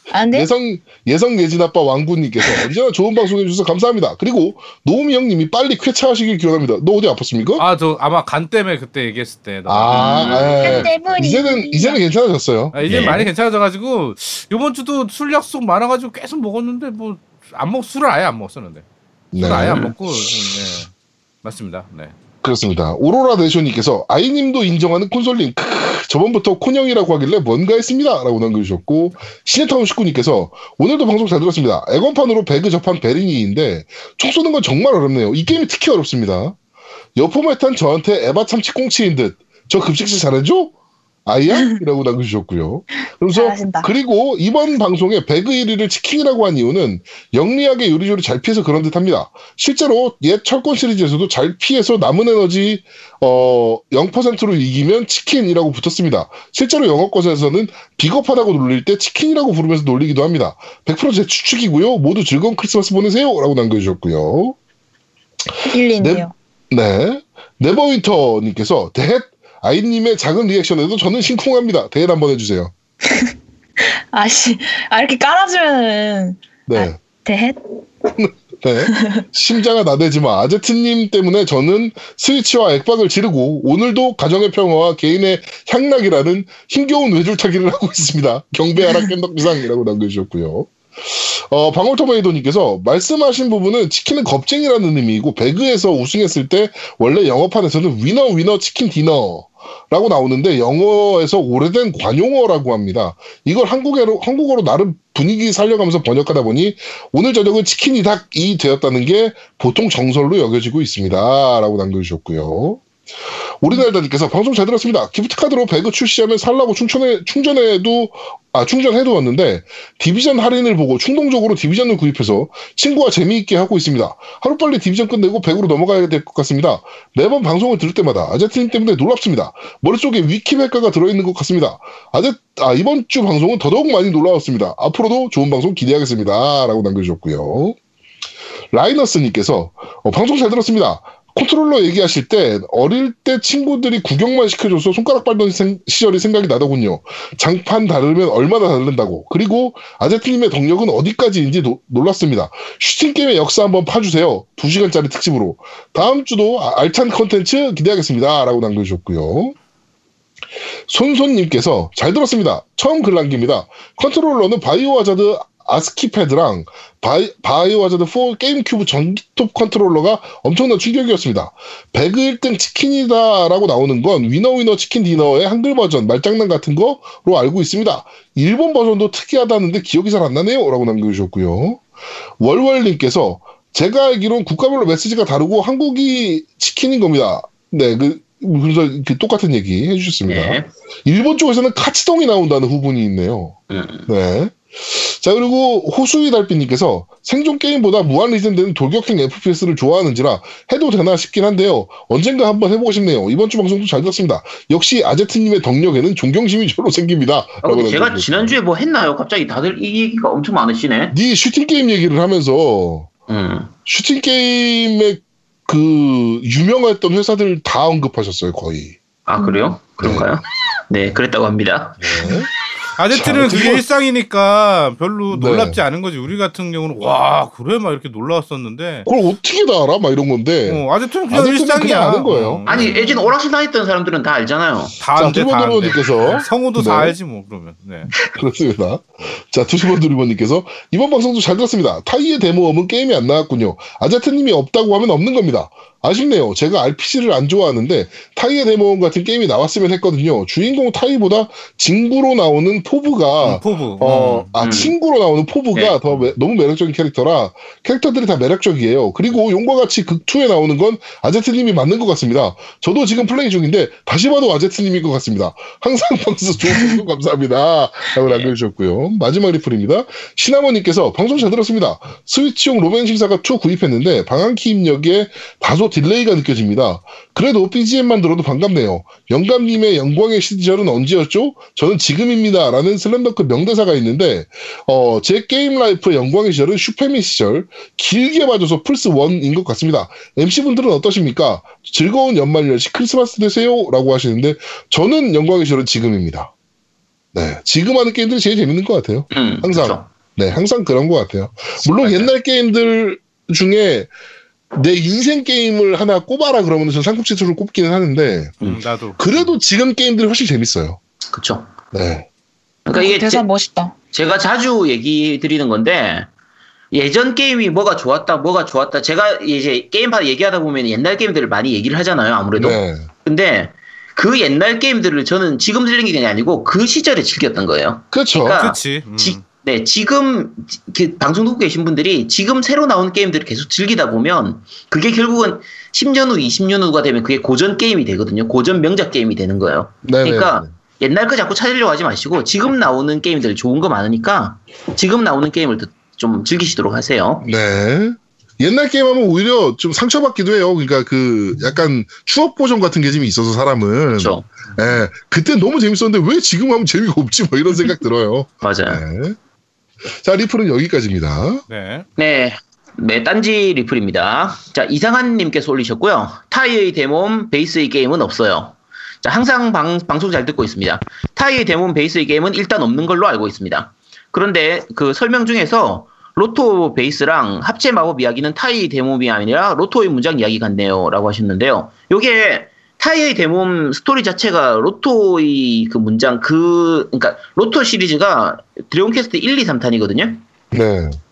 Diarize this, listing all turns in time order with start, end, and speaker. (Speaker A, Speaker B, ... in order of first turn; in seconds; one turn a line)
Speaker A: 0.1-0.5
Speaker B: 0.3-7.6
Speaker C: 7.6-10.6
Speaker B: 9.7-13.2
Speaker D: 9.9-10.8
Speaker A: 10.6-12.0
Speaker C: 12.7-18.8
Speaker D: 12.8-13.2
Speaker B: 19.3-20.3
Speaker C: 19.4-20.9
Speaker C: 21.4-22.1
Speaker B: 22.4-36.6
Speaker B: 37.1-40.7
Speaker B: 41.2-64.6
Speaker A: 41.5-41.8
Speaker A: 43.3-43.9
Speaker A: 65.6-66.3
Speaker B: 66.0-72.7
Speaker A: 73.8-77.8
Speaker B: 76.7-77.0
Speaker B: 78.2-112.8
Speaker A: 78.9-79.2
Speaker B: 113.6-137.8
Speaker B: 138.7-159.6
Speaker B: 160.9-181.8
Speaker B: 182.4-193.6
Speaker D: 190.3-190.7
Speaker D: 193.7-194.1
Speaker B: 194.1-208.6
Speaker D: 207.6-211.2
Speaker B: 211.1-213.1
Speaker D: 213.3-213.7
Speaker B: 213.8-219.0
Speaker D: 219.3-222.3
Speaker A: 219.4-219.7
Speaker B: 220.0-220.3
Speaker B: 222.0-222.5
Speaker C: 222.9-229.1
Speaker B: 223.1-223.8
Speaker B: 225.3-225.8
Speaker B: 229.1-232.7
Speaker C: 230.6-233.3
Speaker D: 232.7-234.9
Speaker C: 235.0-238.1
Speaker B: 235.1-237.2
Speaker B: 238.3-296.5
Speaker C: 253.4-254.5
Speaker D: 254.6-254.9
Speaker D: 268.2-268.5
Speaker B: 297.3-304.1
Speaker D: 299.3-300.1
Speaker D: 301.9-302.3
Speaker B: 304.7-308.6
Speaker C: 308.6-309.2
Speaker B: 309.2-311.0
Speaker D: 311.3-311.7
Speaker B: 311.9-312.3
Speaker D: 312.9-313.4
Speaker A: 312.9-313.9
Speaker D: 314.1-316.3
Speaker D: 316.9-347.5
Speaker B: 322.6-323.1
Speaker B: 328.1-328.6
Speaker C: 328.6-329.4
Speaker B: 340.0-340.7
Speaker B: 347.4-359.4
Speaker D: 354.2-354.8
Speaker D: 358.6-359.0
Speaker B: 360.2-361.6
Speaker C: 361.7-362.1
Speaker D: 362.2-390.4
Speaker B: 390.7-391.2